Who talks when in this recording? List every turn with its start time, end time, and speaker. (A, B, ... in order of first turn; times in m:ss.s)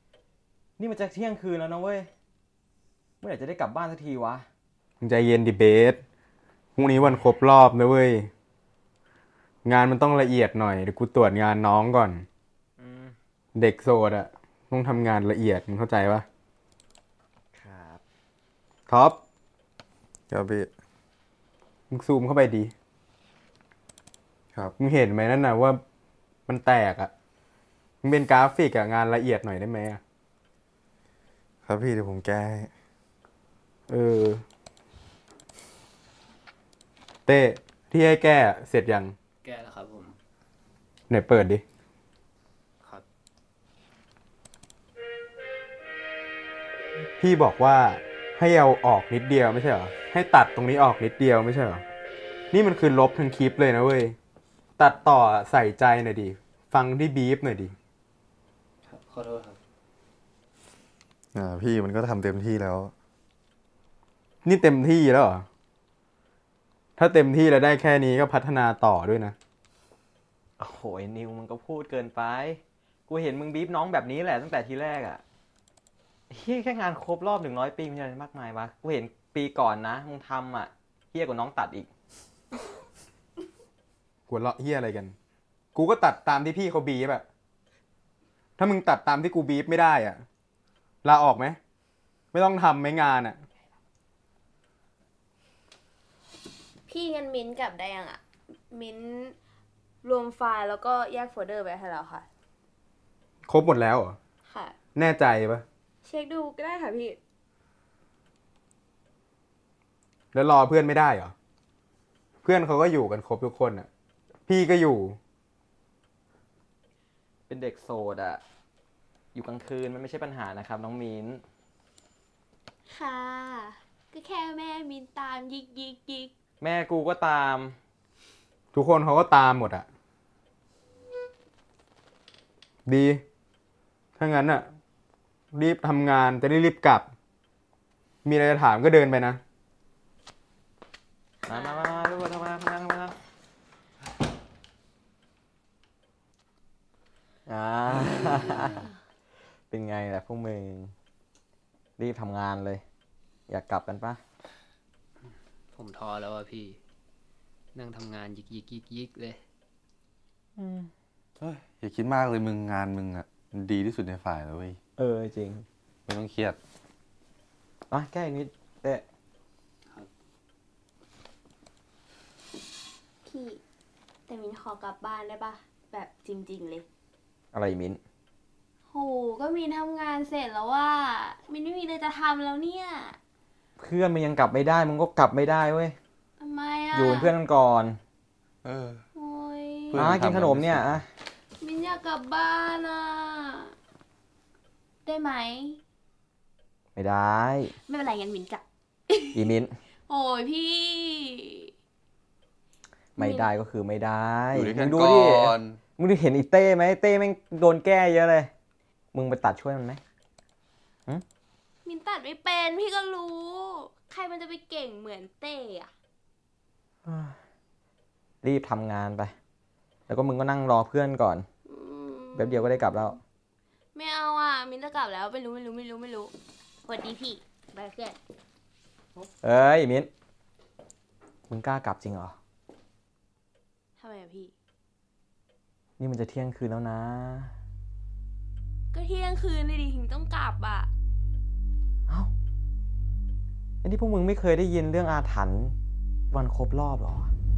0:00.8-0:02.1 A
0:03.2-0:04.5 A
0:05.0-0:06.0 B
0:06.8-0:08.3 B
0:09.6-0:12.2 B
0:12.8-0:13.2 A
0:13.6-0:16.3 B
0:17.5-0:18.0 A
0:18.9-0:19.2 B
0:20.3-0:20.7 C
0:21.9-0:22.7 B
0:24.8-0:25.8 B
0:26.5-0:27.1 B
0:28.0-0:30.0 B
0:31.7-0:32.7 C
0:33.9-0:34.4 B
0:37.3-0:39.1 B
0:39.4-0:40.2 D
0:41.1-0:41.6 B
0:47.2-0:51.8 B
0:52.5-0:54.2 B
0:54.8-0:57.8 B
0:58.8-0:59.6 D
1:01.3-1:02.9 C
1:04.4-1:05.5 B
1:07.0-1:09.4 B
1:10.6-1:15.2 A
1:16.3-1:21.9 A
1:24.3-1:25.2 B
1:25.8-1:27.2 B
1:28.6-1:30.2 B
1:31.0-1:31.6 B
1:32.3-1:33.4 B
1:36.9-1:39.4 E
1:40.0-1:42.3 E
1:43.5-1:44.2 B
1:44.5-1:44.8 E
1:45.0-1:45.6 B
1:46.0-1:47.2 E
1:50.3-1:51.3 B
1:52.4-1:53.9 B
1:54.5-1:55.2 B
1:57.5-1:58.4 A
1:59.3-2:01.4 A
2:02.9-2:06.3 E
2:06.6-2:07.8 A
2:08.7-2:09.9 B
2:12.9-2:13.2 B
2:14.2-2:14.7 B
2:15.5-2:17.1 B
2:18.2-2:19.4 B
2:21.4-2:22.5 E
2:21.5-2:23.2 A
2:27.5-2:28.9 A
2:28.6-2:28.9 E
2:29.7-2:30.9 A
2:32.0-2:32.8 A
2:33.5-2:34.2 A
2:35.7-2:36.8 D
2:37.7-2:39.4 D
2:40.6-2:40.9 A
2:41.4-2:44.8 C
2:45.0-2:45.7 A
2:46.1-2:46.6 C
2:47.9-2:49.0 A
2:53.2-2:53.6 E
2:54.3-2:56.9 E
2:57.5-2:58.0 A
2:58.9-3:03.2 E
3:03.8-3:06.0 A
3:06.4-3:07.3 E
3:06.9-3:08.0 A
3:08.6-3:09.0 C
3:09.2-3:10.0 E
3:09.9-3:11.0 C
3:10.0-3:11.1 A
3:11.6-3:13.8 E
3:15.0-3:15.8 E
3:17.0-3:17.8 A
3:17.8-3:19.4 E
3:19.3-3:19.8 A
3:20.1-3:21.7 E
3:23.2-3:28.5 A
3:23.2-3:23.5 E
3:24.5-3:25.8 C
3:29.1-3:30.0 A
3:31.8-3:35.9 E
3:37.0-3:37.4 A
3:38.4-3:39.3 A
3:40.1-3:41.5 A
3:41.7-3:43.2 E
3:42.4-3:43.2 A
3:44.0-3:46.3 E
3:46.9-3:48.2 E
3:49.4-3:50.1 A
3:51.5-3:52.4 A
3:54.0-3:54.5 E
3:56.0-3:57.6 A
3:58.9-4:00.9 E
4:03.8-4:05.8 A
4:06.3-4:07.3 A